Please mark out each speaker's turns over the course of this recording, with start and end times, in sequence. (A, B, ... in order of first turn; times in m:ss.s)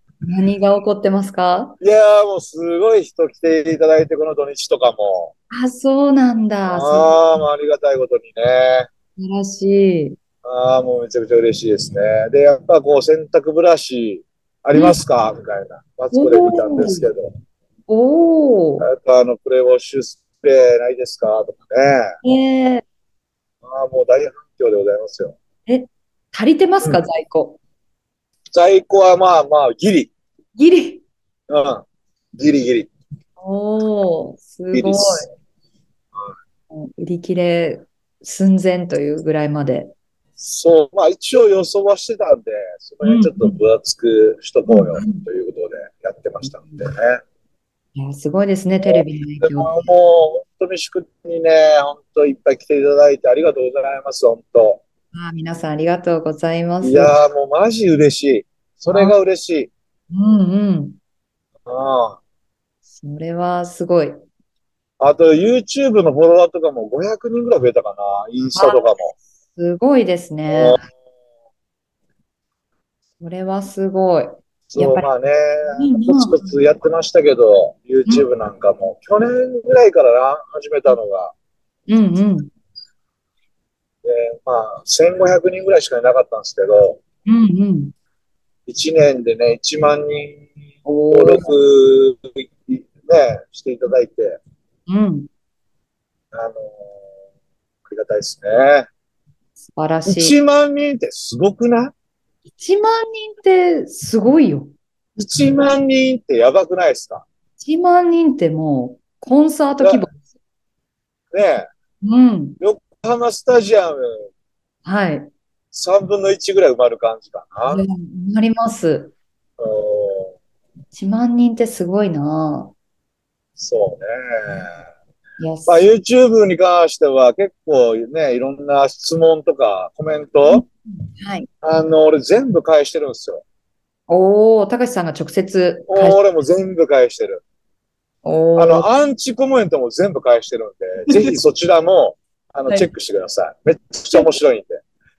0:00.2-0:01.8 A
0:01.8-0:05.3 B
0:05.5-0:07.4 A
0:06.7-0:08.9 B
0:09.2-0:10.2 A
0:10.4-0:17.3 B
0:16.1-0:17.1 A
0:17.9-0:18.9 A
0:18.8-0:22.1 B
0:22.2-0:22.8 A
0:23.6-0:25.4 B
0:25.7-0:27.6 A
0:28.5-0:30.1 B
0:30.6-0:31.0 A
0:31.5-0:31.8 B
0:32.4-0:32.9 B
0:33.4-0:35.3 A
0:34.7-0:35.3 B
0:36.7-0:39.9 A
0:40.4-0:47.2 B
0:43.0-0:43.6 A
0:44.7-0:45.3 A
0:46.4-0:46.9 A
0:48.0-0:49.8 A
0:48.8-0:54.8 B
0:55.1-0:57.2 A
0:56.8-0:59.7 B
0:58.9-0:59.2 A
1:00.1-1:01.0 A
1:01.7-1:02.2 B
1:02.9-1:04.2 A
1:05.0-1:09.1 B
1:08.5-1:10.8 A
1:10.5-1:10.8 B
1:13.2-1:15.1 A
1:14.7-1:21.4 B
1:15.7-1:16.6 A
1:21.9-1:22.5 A
1:24.0-1:27.0 B
1:27.3-1:27.9 A
1:28.7-1:30.5 B
1:30.8-1:31.6 A
1:31.1-1:34.4 B
1:34.9-1:35.3 A
1:36.3-1:36.9 B
1:37.8-1:38.9 B
1:39.6-1:40.4 A
1:40.1-1:41.9 B
1:42.5-1:44.7 A
1:45.2-1:47.2 B
1:47.6-1:50.2 A
1:49.8-1:50.1 B
1:51.3-1:51.7 B
1:52.0-1:52.6 A
1:52.6-1:54.3 B
1:54.8-1:55.3 A
1:55.7-1:57.8 B
1:57.7-1:59.2 A
1:59.6-2:00.3 B
2:00.9-2:02.7 A
2:03.6-2:04.7 B
2:05.4-2:05.9 A
2:05.7-2:10.6 B
2:10.5-2:11.5 A
2:11.6-2:13.4 B
2:14.1-2:16.2 A
2:15.9-2:17.4 B
2:18.2-2:18.9 A
2:18.6-2:24.8 B
2:21.1-2:21.4 A